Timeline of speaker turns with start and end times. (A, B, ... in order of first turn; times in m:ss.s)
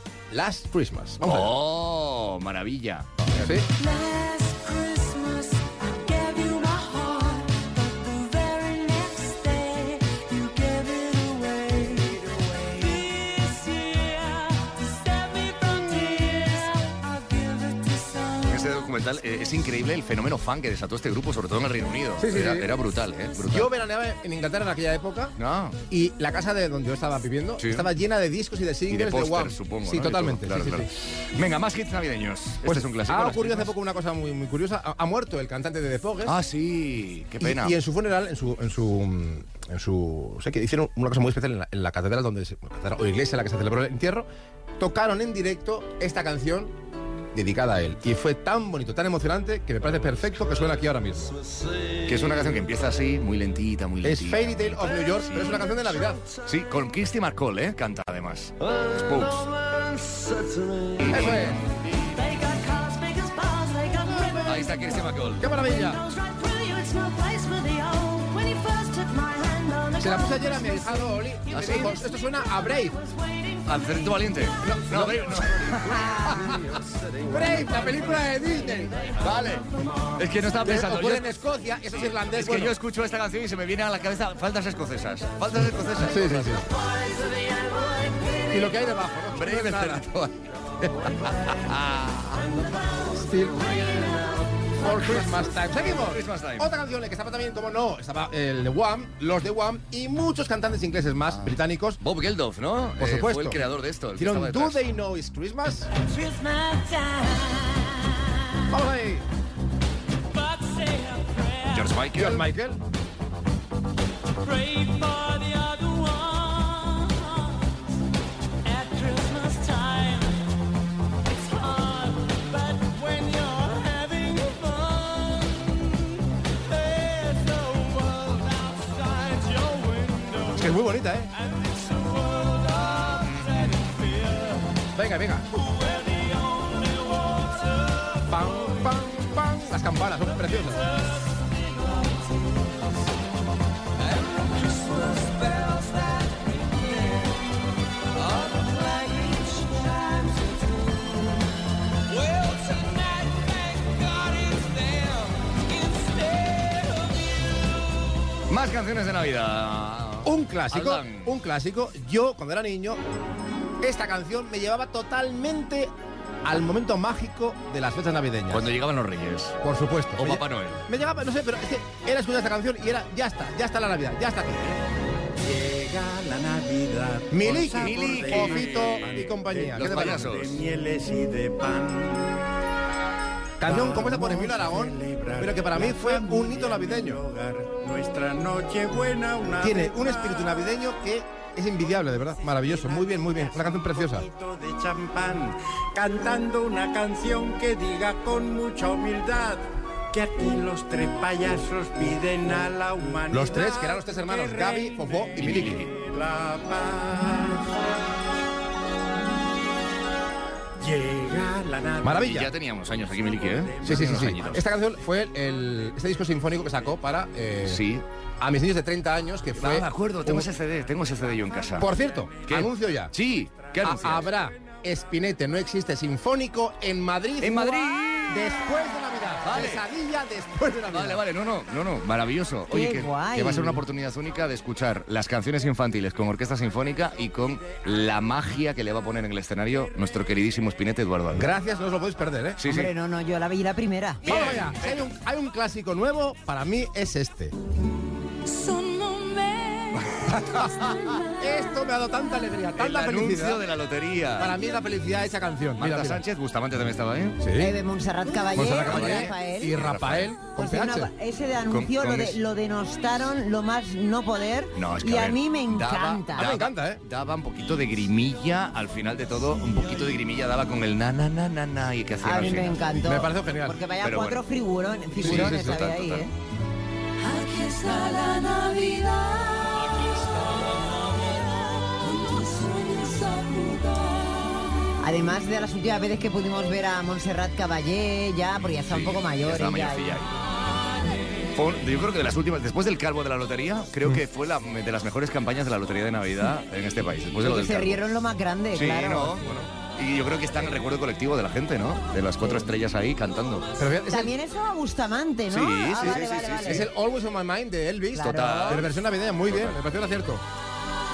0:00.3-0:01.6 A
0:01.2-0:03.5 B
0:03.3-0:03.7 A
0:03.7-0:18.9 C
0:18.5-0:23.7 B
0:22.2-0:22.7 A
0:23.5-0:25.4 A
0:25.4-0:25.8 B
0:25.9-0:30.9 A
0:27.6-0:27.9 B
0:28.9-0:33.7 B
0:32.6-0:36.4 A
0:36.2-0:37.8 B
0:37.4-0:44.3 A
0:44.8-0:46.7 A
0:47.3-0:51.3 A
0:52.0-0:55.8 B
0:54.0-0:56.2 A
0:56.4-0:59.7 B
1:00.9-1:01.6 B
1:01.1-1:01.6 A
1:01.9-1:14.8 C
1:04.2-1:04.4 A
1:04.4-1:05.5 B
1:05.4-1:06.0 A
1:10.0-1:13.0 A
1:11.5-1:12.0 B
1:13.6-1:16.6 B
1:14.6-1:16.6 A
1:17.3-1:19.0 A
1:17.5-1:18.2 B
1:18.4-1:18.8 C
1:19.2-1:19.6 B
1:20.2-1:21.3 B
1:20.6-1:22.8 A
1:21.9-1:26.6 B
1:26.0-1:26.7 A
1:26.8-1:28.8 C
1:28.5-1:30.0 A
1:29.3-1:32.6 B
1:32.9-1:34.3 C
1:33.2-1:34.2 A
1:34.8-1:42.0 A
1:35.0-1:36.7 B
1:41.3-1:44.8 B
1:43.0-1:43.6 A
1:44.2-1:45.9 A
1:46.0-1:48.6 C
1:48.7-1:49.2 A
1:50.3-1:52.0 C
1:51.7-1:52.5 B
1:52.2-1:52.8 A
1:54.4-1:57.7 C
1:58.6-2:00.4 C
2:01.3-2:05.8 C
2:06.7-2:10.6 C
2:10.6-2:11.3 A
2:11.5-2:13.0 C
2:15.0-2:15.5 A
2:15.7-2:17.6 C
2:18.3-2:20.8 A
2:24.3-2:27.2 C
2:28.3-2:30.6 C
2:32.4-2:34.8 C
2:35.5-2:37.3 C
2:38.5-2:41.3 B
2:40.2-2:43.0 A
2:43.8-2:45.9 A
2:46.4-2:48.7 A
2:48.5-2:49.6 B
2:49.6-2:54.7 A
2:50.2-2:50.8 B
2:55.4-3:02.4 D
2:57.3-3:00.3 A
2:57.8-2:59.2 B
2:59.7-3:00.6 B
3:03.6-3:07.2 A
3:03.6-3:10.8 D
3:09.6-3:14.3 A
3:11.8-3:27.8 D
3:23.3-3:25.9 A
3:25.4-3:25.9 B
3:30.8-3:32.5 D
3:32.0-3:32.5 A
3:32.2-3:34.6 B
3:33.0-3:34.6 D
3:33.8-3:37.8 A
3:37.6-3:38.0 B
3:38.4-3:40.5 A
3:39.6-3:41.9 B
3:41.3-3:42.4 D
3:41.8-3:43.1 A
3:42.5-3:44.3 B
3:43.8-3:51.2 A
3:47.4-3:48.6 B
3:49.4-3:49.8 B
3:50.9-4:01.5 B
3:52.7-3:53.8 E
4:01.3-4:02.6 A
4:02.6-4:02.9 B
4:02.6-4:04.2 E
4:04.2-4:07.5 A
4:04.3-4:05.0 B
4:08.5-4:10.3 C
4:11.4-4:13.6 A
4:12.8-4:14.5 B
4:14.4-4:16.2 A
4:15.8-4:17.4 B
4:17.4-4:17.7 A
4:17.6-4:19.8 E
4:18.6-4:21.1 A
4:18.6-4:20.4 B
4:20.6-4:26.6 E
4:21.7-4:22.4 B
4:24.8-4:32.8 B
4:26.4-4:27.0 A
4:32.2-4:36.3 E
4:33.0-4:33.8 A
4:34.0-4:34.4 B
4:35.2-4:36.3 B
4:35.2-4:35.8 A
4:37.2-4:44.9 C
4:45.0-4:50.2 E
4:48.6-4:50.3 B
4:51.5-4:58.1 B
4:57.4-4:59.5 E
4:58.7-5:03.7 B
5:03.8-5:04.3 A
5:04.1-5:06.9 E
5:05.5-5:06.9 B
5:06.6-5:10.4 A
5:08.1-5:08.8 E
5:08.2-5:08.9 B
5:09.5-5:09.8 B